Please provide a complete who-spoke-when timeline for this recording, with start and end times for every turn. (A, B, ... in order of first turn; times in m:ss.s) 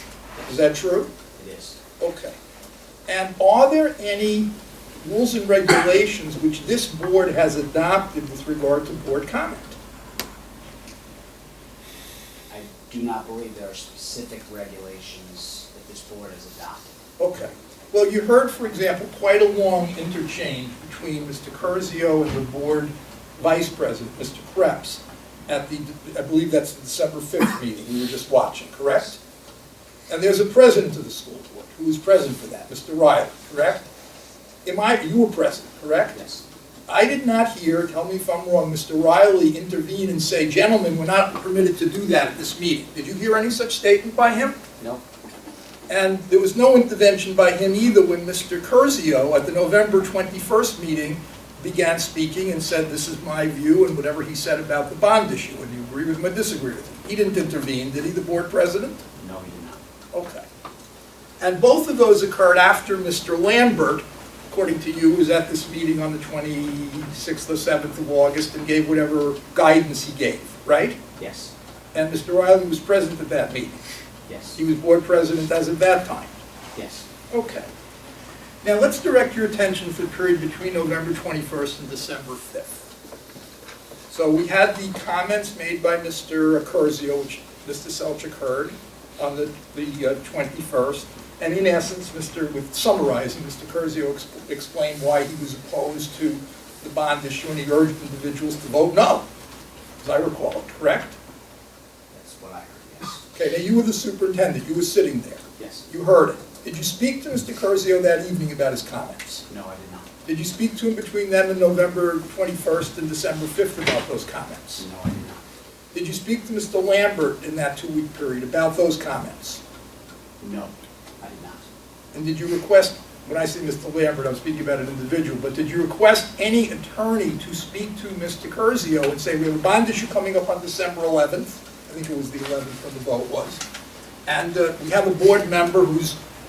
0:00.4-0:01.1 A
0:01.4-0:01.8 B
0:02.0-0:02.3 A
0:03.1-0:04.5 A
0:05.0-0:09.8 A
0:12.5-0:16.9 B
0:17.2-0:29.2 A
0:30.1-0:33.8 A
0:34.6-0:36.2 A
0:36.1-0:36.4 B
0:36.9-0:44.6 A
0:45.9-0:59.0 A
0:59.2-0:59.8 B
1:00.1-1:00.4 A
1:01.4-1:11.0 A
1:11.2-1:11.5 B
1:11.9-1:13.7 A
1:14.3-1:14.6 B
1:14.6-1:16.3 A
1:16.7-1:17.0 B
1:17.3-1:17.7 A
1:18.6-1:22.7 A
1:24.1-1:39.2 A
1:40.0-1:41.2 A
1:42.1-1:43.2 B
1:43.3-1:49.4 A
1:45.6-1:45.8 B
1:49.5-1:50.1 B
1:50.2-1:54.8 A
1:54.8-1:55.4 B
1:55.9-1:59.6 A
2:00.4-2:01.6 B
2:02.1-2:13.6 A
2:14.2-2:16.2 A